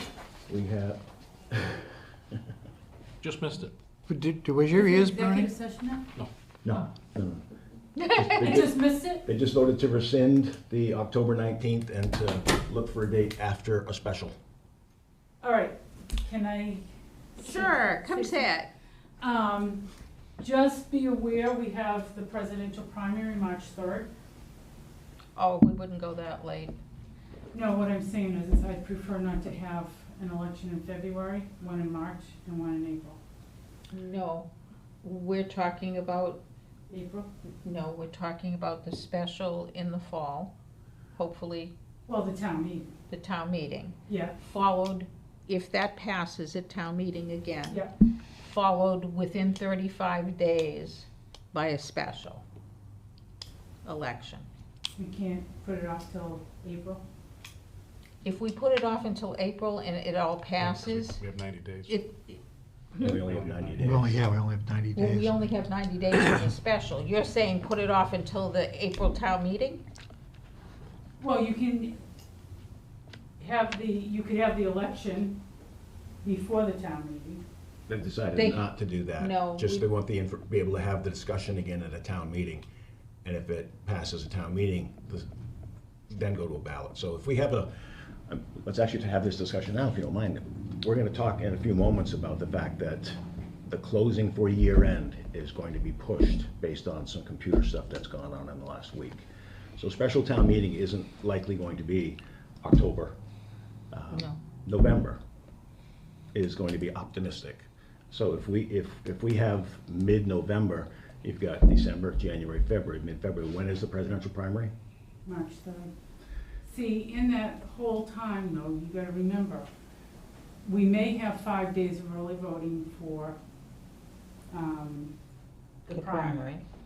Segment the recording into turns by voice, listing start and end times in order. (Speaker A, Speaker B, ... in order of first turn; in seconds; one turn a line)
Speaker A: 0.5-1.9
Speaker B: 3.2-3.7
Speaker C: 4.1-5.5
Speaker D: 4.7-6.1
Speaker A: 6.6-7.5
Speaker E: 8.0-8.6
Speaker A: 8.0-14.4
Speaker D: 8.4-9.2
Speaker D: 15.4-16.9
Speaker D: 17.4-18.5
Speaker E: 17.4-18.7
Speaker D: 19.2-19.8
Speaker D: 20.4-24.1
Speaker E: 25.4-26.8
Speaker D: 27.5-33.2
Speaker E: 33.9-34.5
Speaker E: 35.0-36.4
Speaker D: 36.9-37.3
Speaker E: 37.6-40.5
Speaker E: 41.2-41.7
Speaker D: 42.1-42.9
Speaker E: 43.1-47.8
Speaker D: 44.1-44.4
Speaker E: 48.4-52.4
Speaker E: 53.8-54.5
Speaker D: 55.0-57.0
Speaker E: 58.2-61.2
Speaker B: 60.6-62.0
Speaker E: 61.9-62.4
Speaker A: 63.0-64.3
Speaker B: 63.0-63.9
Speaker C: 63.8-65.3
Speaker E: 64.9-69.8
Speaker D: 71.2-72.0
Speaker D: 73.4-75.4
Speaker D: 76.2-77.4
Speaker A: 77.9-82.7
Speaker E: 78.3-79.9
Speaker A: 83.2-85.3
Speaker A: 86.1-87.7
Speaker A: 88.3-99.2
Speaker A: 99.8-103.2
Speaker A: 103.9-105.2
Speaker E: 104.1-104.4
Speaker A: 106.3-114.7
Speaker D: 115.2-115.9
Speaker D: 116.6-119.7
Speaker D: 120.6-123.4
Speaker D: 124.5-125.1
Speaker D: 125.8-126.5
Speaker E: 125.9-126.6